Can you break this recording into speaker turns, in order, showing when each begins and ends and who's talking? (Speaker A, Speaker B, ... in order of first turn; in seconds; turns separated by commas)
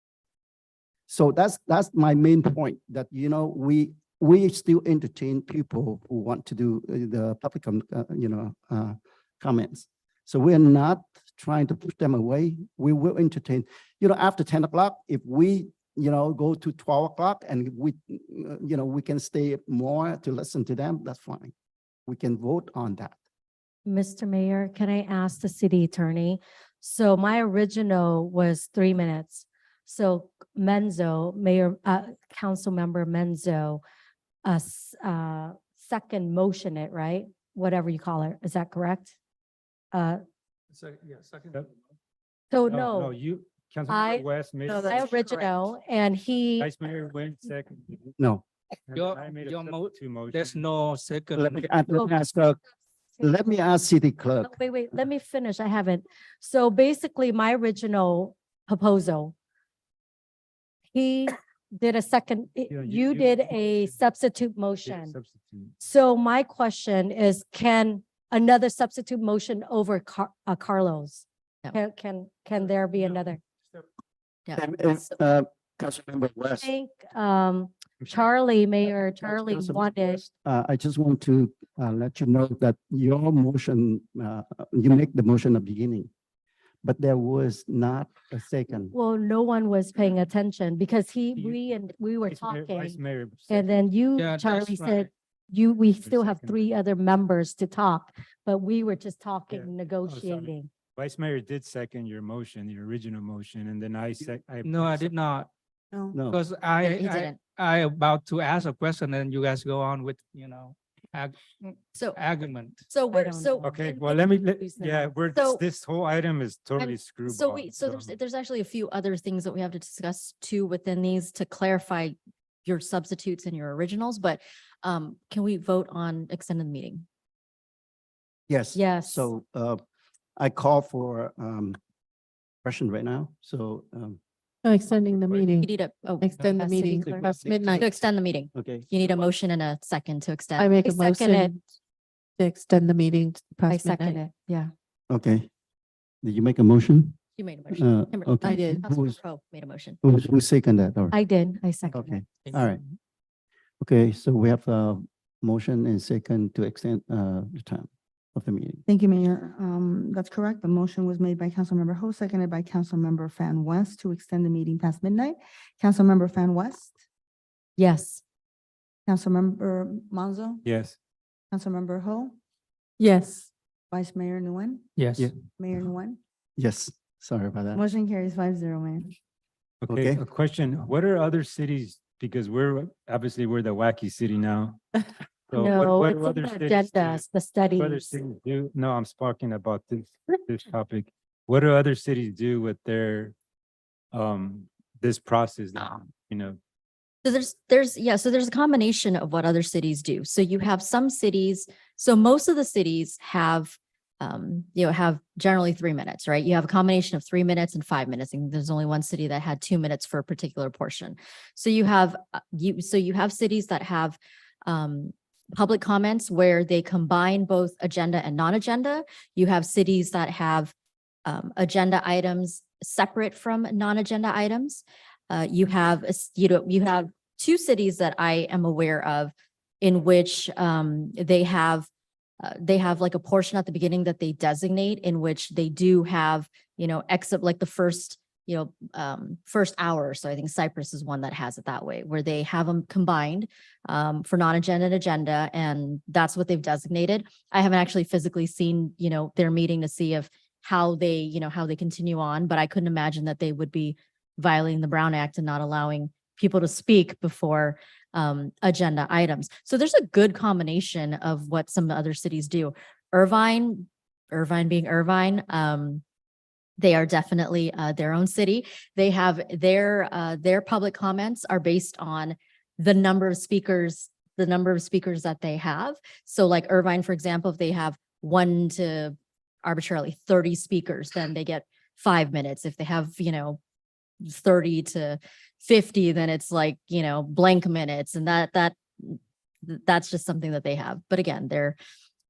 Speaker A: 1.1-21.5, Speaker A: 22.1-23.2, Speaker B: 23.9-33.8, Speaker B: 34.5-39.1, Speaker B: 39.9-40.2, Speaker C: 40.8-41.5, Speaker B: 42.5-43.2, Speaker D: 42.7-45.3, Speaker B: 43.9-44.2, Speaker E: 44.7-45.5, Speaker B: 44.9-46.7, Speaker D: 46.6-48.1, Speaker A: 48.2-48.4, Speaker D: 48.9-50.6, Speaker C: 48.9-51.7, Speaker A: 51.3-52.6, Speaker A: 53.2-54.5, Speaker B: 54.4-59.4, Speaker B: 60.9-65.2, Speaker D: 62.7-64.0, Speaker D: 64.8-65.8, Speaker B: 65.8-73.4, Speaker F: 74.5-75.1, Speaker A: 74.6-76.7, Speaker B: 76.6-80.2, Speaker A: 79.2-86.1, Speaker A: 86.8-89.0, Speaker B: 88.9-100.7, Speaker D: 92.3-93.8, Speaker C: 94.2-95.1, Speaker D: 96.0-96.6, Speaker D: 99.5-105.1, Speaker C: 104.6-105.5, Speaker G: 105.9-106.2, Speaker A: 106.1-106.4, Speaker C: 106.2-112.9, Speaker F: 106.8-107.4, Speaker F: 112.0-112.2, Speaker F: 112.9-115.6, Speaker B: 113.1-113.9, Speaker D: 113.6-118.2, Speaker F: 116.8-127.0, Speaker A: 128.5-129.8, Speaker F: 128.8-129.2, Speaker A: 130.4-131.8, Speaker A: 132.6-134.2, Speaker E: 134.6-138.1, Speaker F: 135.6-141.5, Speaker A: 137.4-137.9, Speaker A: 138.6-138.9, Speaker E: 140.6-141.7, Speaker E: 142.4-144.2, Speaker F: 143.7-144.7, Speaker A: 145.1-145.5, Speaker A: 146.2-147.2, Speaker F: 147.4-150.0, Speaker A: 147.7-149.2, Speaker E: 148.4-148.8, Speaker A: 150.0-151.2, Speaker B: 151.1-152.1, Speaker F: 151.6-152.0, Speaker A: 151.9-152.8, Speaker C: 152.4-153.0, Speaker A: 153.8-158.8, Speaker G: 158.9-167.0, Speaker F: 167.8-168.2, Speaker G: 169.1-170.6, Speaker D: 170.7-171.0, Speaker G: 171.5-172.3, Speaker B: 173.2-173.5, Speaker G: 173.9-174.8, Speaker C: 175.0-175.3, Speaker G: 175.6-176.2, Speaker A: 176.6-177.8, Speaker G: 177.7-179.2, Speaker D: 179.8-184.8, Speaker A: 179.9-180.2, Speaker D: 185.5-187.3, Speaker B: 185.6-188.1, Speaker D: 187.8-193.3, Speaker D: 194.1-196.6, Speaker F: 197.2-220.7, Speaker F: 221.3-231.9, Speaker F: 232.4-266.0, Speaker F: 266.8-283.6, Speaker F: 284.2-291.8